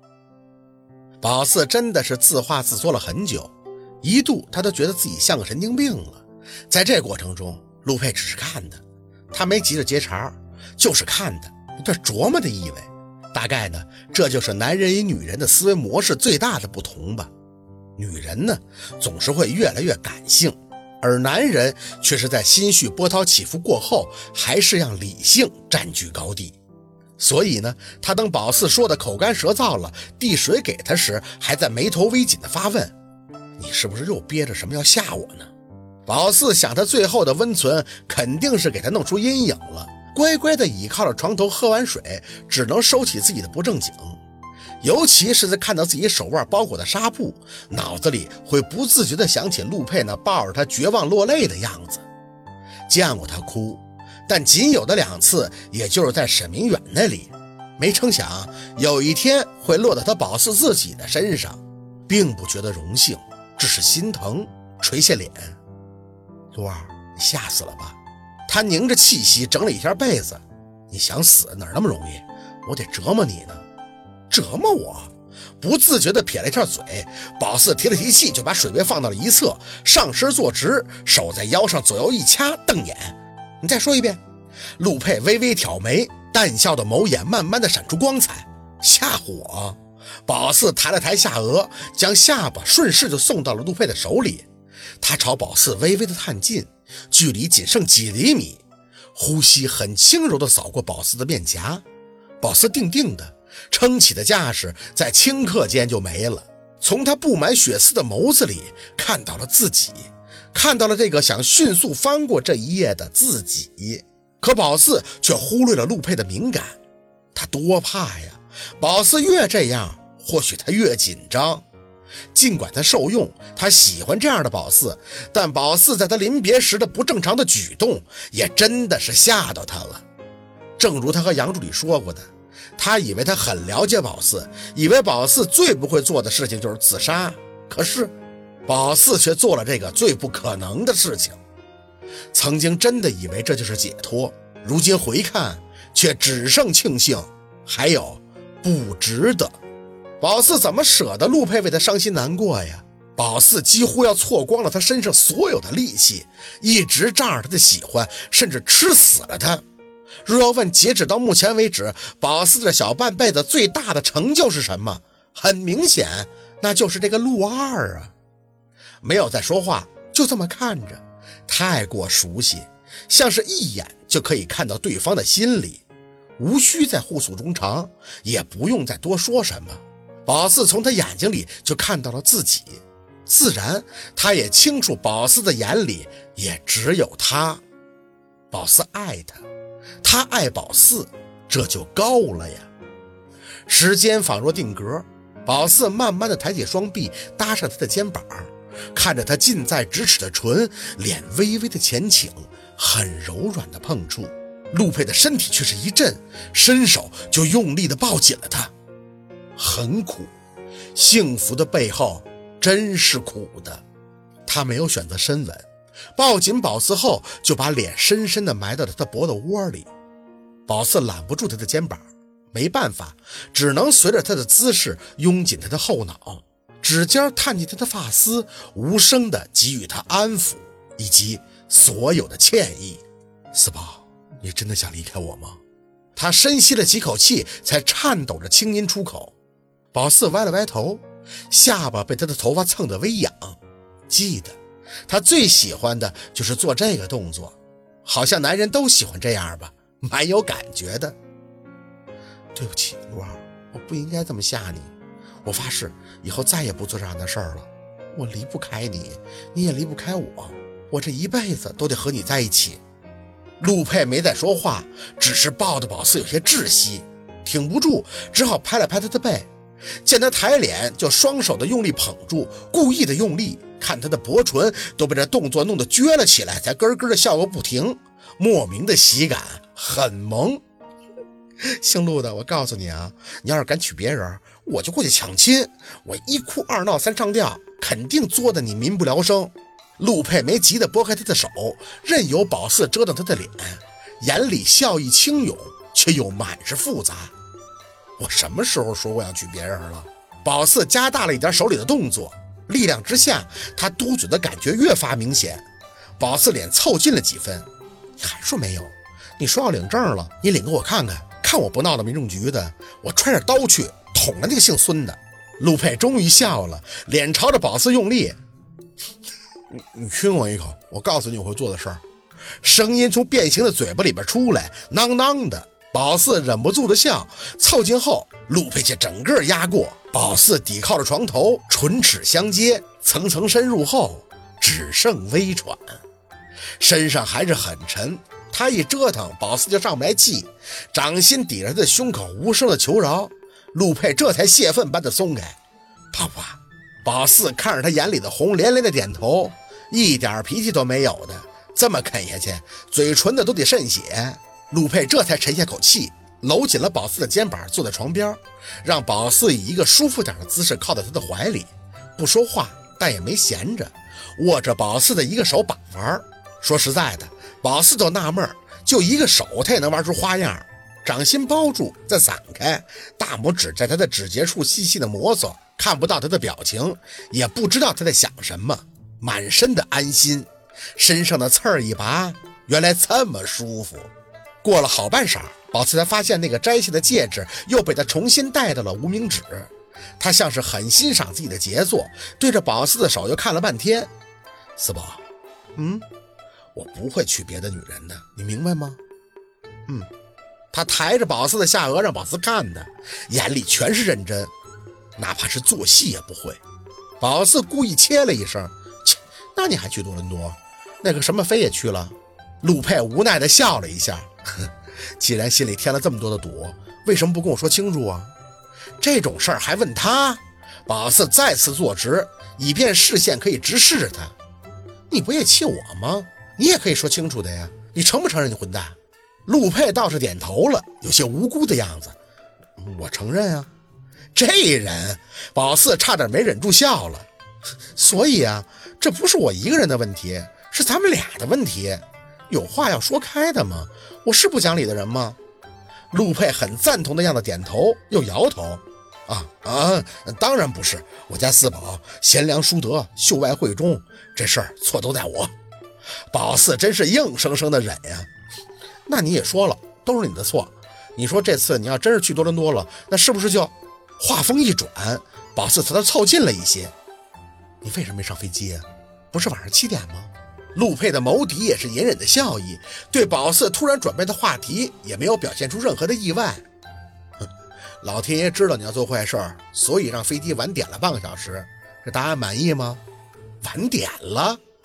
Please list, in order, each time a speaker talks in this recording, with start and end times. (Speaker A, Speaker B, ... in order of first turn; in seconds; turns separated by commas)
Speaker A: 1.2-17.3, Speaker A: 18.0-26.6, Speaker A: 27.2-32.9, Speaker A: 33.6-35.5, Speaker A: 36.0-44.2, Speaker A: 44.8-52.0, Speaker A: 52.9-65.6, Speaker A: 66.5-68.0, Speaker A: 68.5-73.6, Speaker A: 74.3-84.2, Speaker A: 84.8-94.5, Speaker A: 95.0-98.6, Speaker A: 99.1-101.8, Speaker A: 102.4-116.8, Speaker A: 117.3-121.6, Speaker A: 122.3-130.0, Speaker A: 130.8-138.1, Speaker A: 138.7-141.4, Speaker A: 142.3-149.6, Speaker A: 150.2-159.6, Speaker A: 160.2-168.1, Speaker A: 169.0-175.8, Speaker A: 176.4-187.6, Speaker A: 188.5-189.4, Speaker A: 190.0-192.7, Speaker A: 193.7-208.7, Speaker A: 209.6-210.3, Speaker A: 210.9-213.8, Speaker A: 214.5-219.9, Speaker A: 220.7-233.0, Speaker A: 233.5-235.6, Speaker A: 236.2-239.3, Speaker A: 239.9-243.6, Speaker A: 244.1-251.2, Speaker A: 252.5-254.9, Speaker A: 255.4-262.8, Speaker A: 263.6-269.5, Speaker A: 270.0-280.6, Speaker A: 281.6-297.3, Speaker A: 298.2-305.6, Speaker A: 306.2-307.6, Speaker A: 308.2-318.4, Speaker A: 319.7-322.0, Speaker A: 322.6-336.0, Speaker A: 336.8-345.6, Speaker A: 346.1-384.1, Speaker A: 384.6-394.1, Speaker A: 394.8-395.2, Speaker A: 395.8-396.1, Speaker A: 396.7-399.0, Speaker A: 400.7-404.5, Speaker A: 405.2-406.6, Speaker A: 407.2-418.3, Speaker A: 419.0-424.3, Speaker A: 425.1-432.2, Speaker A: 432.8-433.7, Speaker A: 434.3-437.3, Speaker A: 437.9-445.4, Speaker A: 446.1-455.5, Speaker A: 456.3-458.3, Speaker A: 459.1-466.9, Speaker A: 467.8-476.6, Speaker A: 478.0-483.0, Speaker A: 483.6-484.6